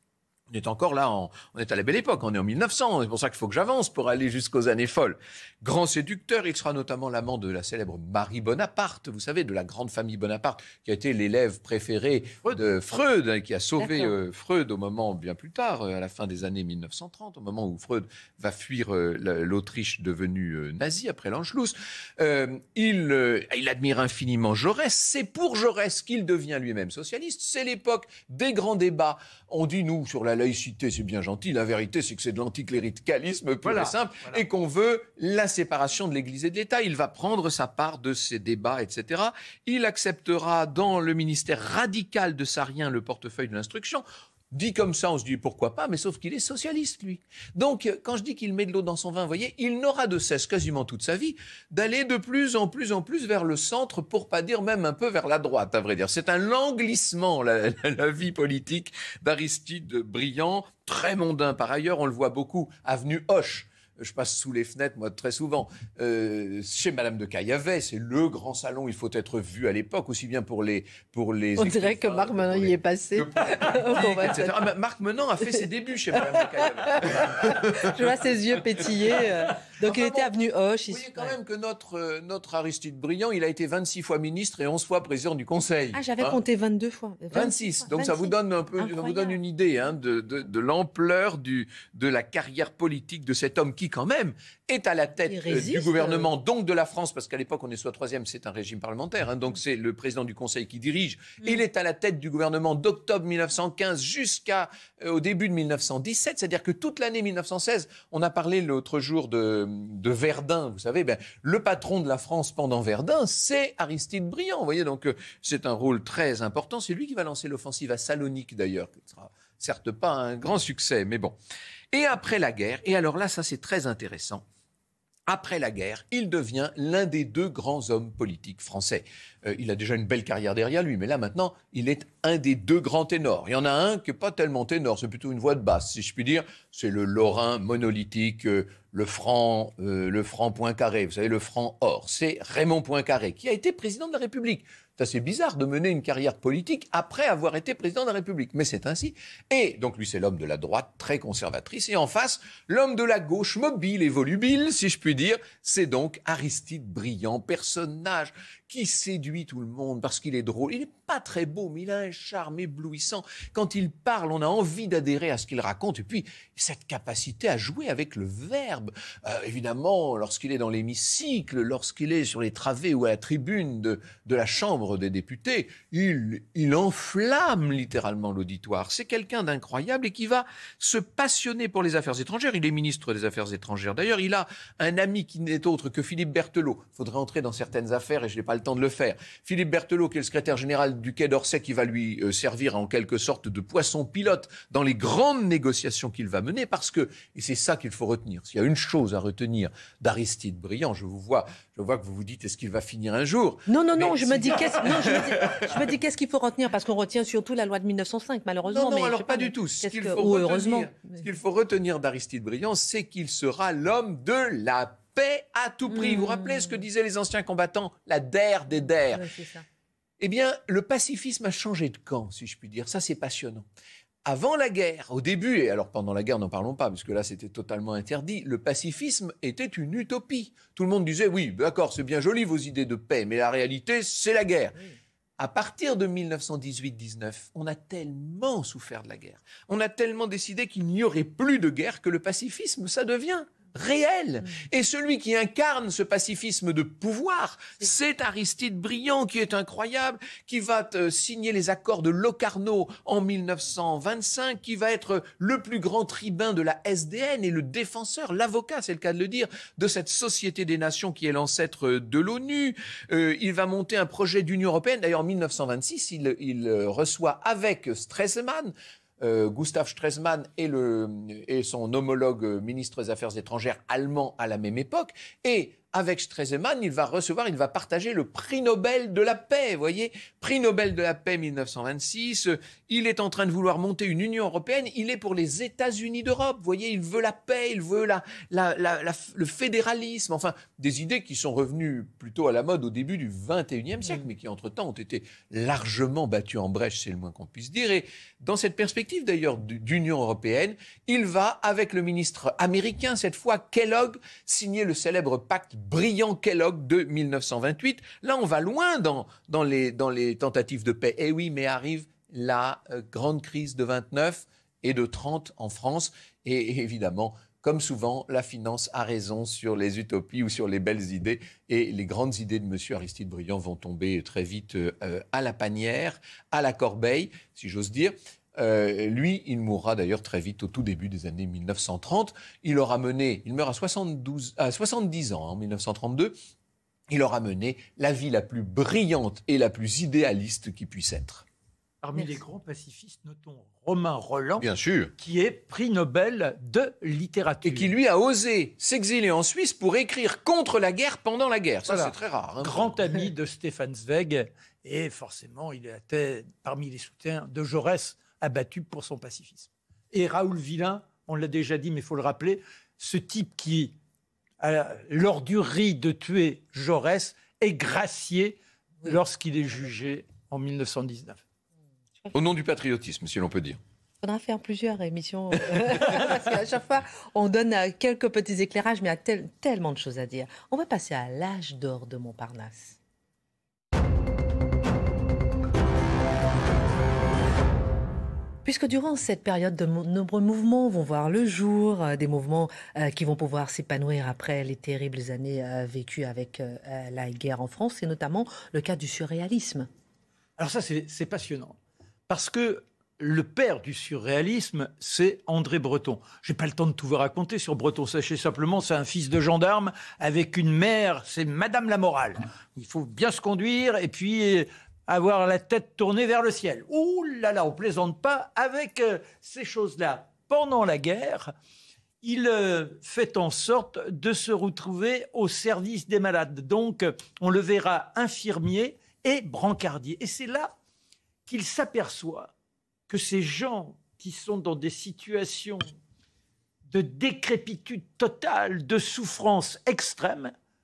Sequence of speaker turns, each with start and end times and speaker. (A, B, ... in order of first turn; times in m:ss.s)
0:00.5-1:18.2 A
0:13.8-0:14.1 B
0:33.6-0:34.4 C
1:11.6-1:14.7 B
1:16.2-1:21.4 B
1:19.8-1:20.4 A
1:20.9-1:26.4 A
1:25.9-1:29.4 B
1:27.3-2:01.4 A
1:35.2-1:36.3 B
2:01.9-2:04.4 A
2:05.3-3:25.9 A
3:23.7-3:31.2 B
3:28.7-3:39.2 A
3:35.9-3:36.8 B
3:39.1-3:39.6 B
3:40.2-3:43.6 A
3:44.2-3:54.8 A
3:55.4-5:36.3 A
5:37.1-5:41.5 A
5:42.0-5:44.7 C
5:44.6-5:45.1 A
5:45.2-5:47.9 C
5:47.6-5:53.0 A
5:51.9-6:03.9 C
6:04.6-6:11.4 C
6:12.3-6:13.8 A
6:14.2-6:23.0 B
6:28.6-6:39.9 B
6:40.6-6:41.8 C
6:42.3-7:01.5 C
7:02.2-7:10.7 C
7:11.5-7:12.5 C
7:13.1-7:15.9 C
7:16.9-7:20.5 C